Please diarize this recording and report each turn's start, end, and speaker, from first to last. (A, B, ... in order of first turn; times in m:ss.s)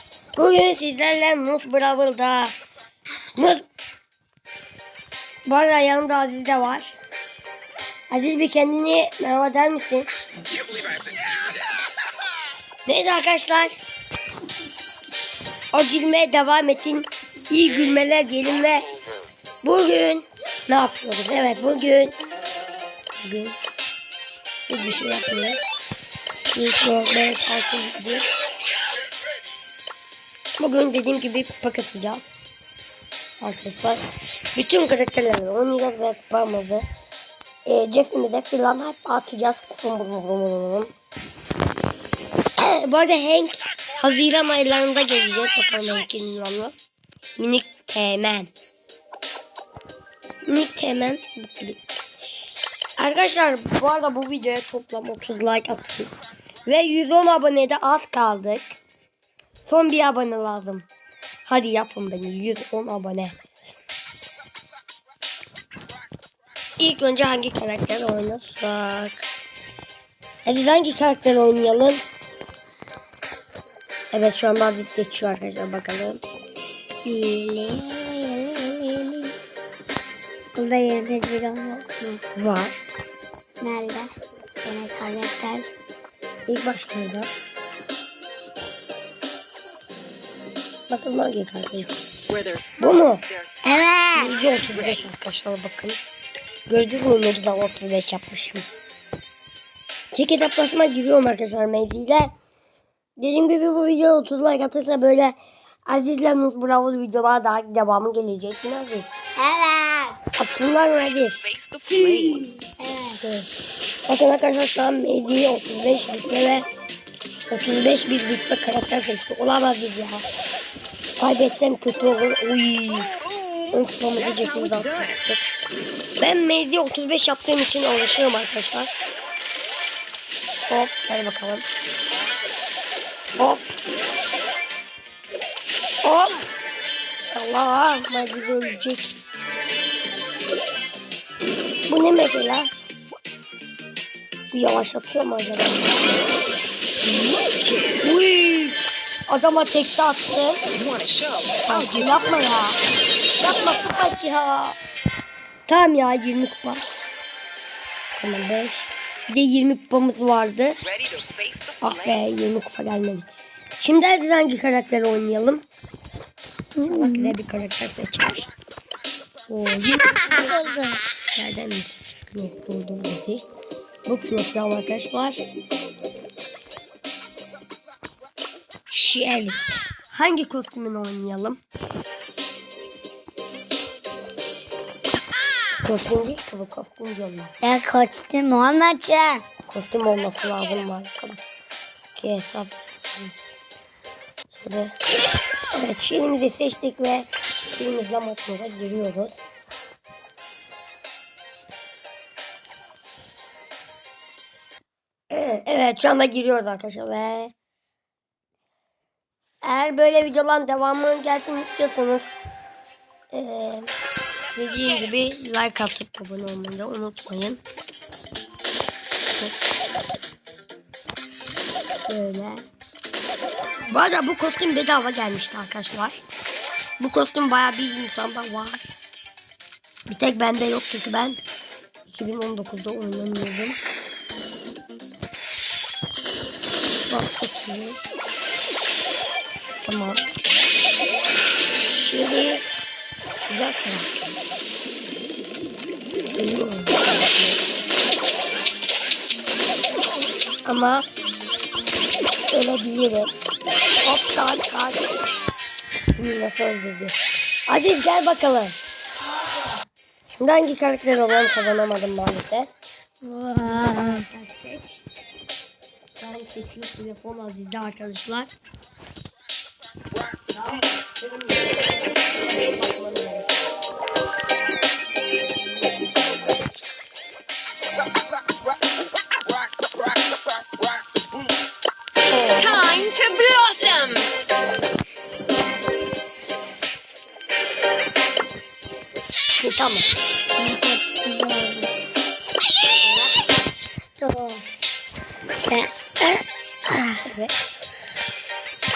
0:00.4-0:02.5 A
0:03.4-0:03.6 A
0:05.4-0:07.0 A
0:08.1-0:10.2 A
0:12.8-0:13.8 A
0:15.7-0:18.9 A
0:19.6-0:22.2 A
0:23.2-0:23.6 A
0:24.7-0:25.6 A
0:26.5-0:28.2 A
0:30.6-0:32.2 A
0:33.4-0:34.0 A
0:34.5-0:36.8 A
0:37.6-0:40.9 A
0:42.6-0:46.7 A
0:47.4-0:48.5 A
0:50.4-0:51.8 A
0:53.0-0:56.1 A
0:56.6-0:58.8 A
0:59.6-1:00.9 A
1:01.5-1:03.4 A
1:06.8-1:09.3 A
1:10.4-1:12.0 A
1:14.1-1:16.2 A
1:17.0-1:19.4 B
1:20.5-1:22.2 B
1:22.3-1:22.8 A
1:23.6-1:24.1 B
1:24.6-1:25.7 B
1:26.5-1:27.3 A
1:30.9-1:32.2 A
1:32.3-1:32.8 C
1:32.8-1:33.2 A
1:33.6-1:34.3 B
1:34.1-1:36.0 A
1:36.7-1:38.6 A
1:40.1-1:42.3 A
1:43.2-1:49.1 A
1:49.4-1:50.2 B
1:50.4-1:51.4 A
1:51.6-1:51.9 C
1:51.9-1:53.2 B
1:53.2-1:53.5 A
1:54.1-1:56.6 A
1:57.5-2:00.2 A
2:01.2-2:03.1 A
2:03.7-2:05.4 A
2:06.2-2:09.0 A
2:10.7-2:11.6 A
2:13.4-2:13.8 A
2:16.0-2:16.5 A
2:17.3-2:19.2 A
2:21.9-2:22.7 A
2:24.5-2:26.3 A
2:28.0-2:30.6 A
2:30.8-2:31.6 C
2:31.6-2:32.8 A
2:33.4-2:34.8 A
2:35.7-2:36.9 A
2:38.1-2:40.7 A
2:41.0-2:41.8 C
2:41.8-2:43.3 A
2:43.8-2:45.6 A
2:46.8-2:47.4 B
2:46.8-2:48.5 A
2:49.5-2:50.6 A
2:50.3-2:51.0 B
2:51.3-2:53.4 A
2:54.0-2:55.5 A
2:58.9-2:59.6 A
3:00.1-3:01.6 A
3:05.8-3:07.5 A
3:07.6-3:09.4 B
3:09.7-3:11.4 A
3:12.2-3:13.3 A
3:14.5-3:14.9 A
3:15.7-3:19.4 A
3:25.3-3:27.5 A
3:29.6-3:32.3 A
3:33.3-3:33.9 A
3:34.5-3:37.6 A
3:42.1-3:42.6 A
3:43.9-3:46.2 A
3:47.0-3:48.9 A
3:50.1-3:51.4 A
3:52.0-3:53.8 A
3:57.1-3:58.0 A
3:59.8-4:00.2 A
4:02.0-4:02.6 A
4:03.5-4:04.1 A
4:06.4-4:07.6 A
4:10.6-4:11.0 A
4:12.5-4:13.3 A
4:14.0-4:15.2 A
4:16.2-4:18.8 A
4:20.3-4:22.7 A
4:23.2-4:24.2 B
4:23.6-4:25.0 A
4:26.2-4:28.5 A
4:30.5-4:33.7 A
4:35.7-4:37.0 A
4:42.3-4:43.1 A
4:43.3-4:44.2 C
4:49.5-4:50.1 A
4:50.6-4:51.9 B
4:53.0-4:53.3 A
4:54.2-4:54.6 B
4:55.6-4:56.4 B
4:56.9-4:57.7 A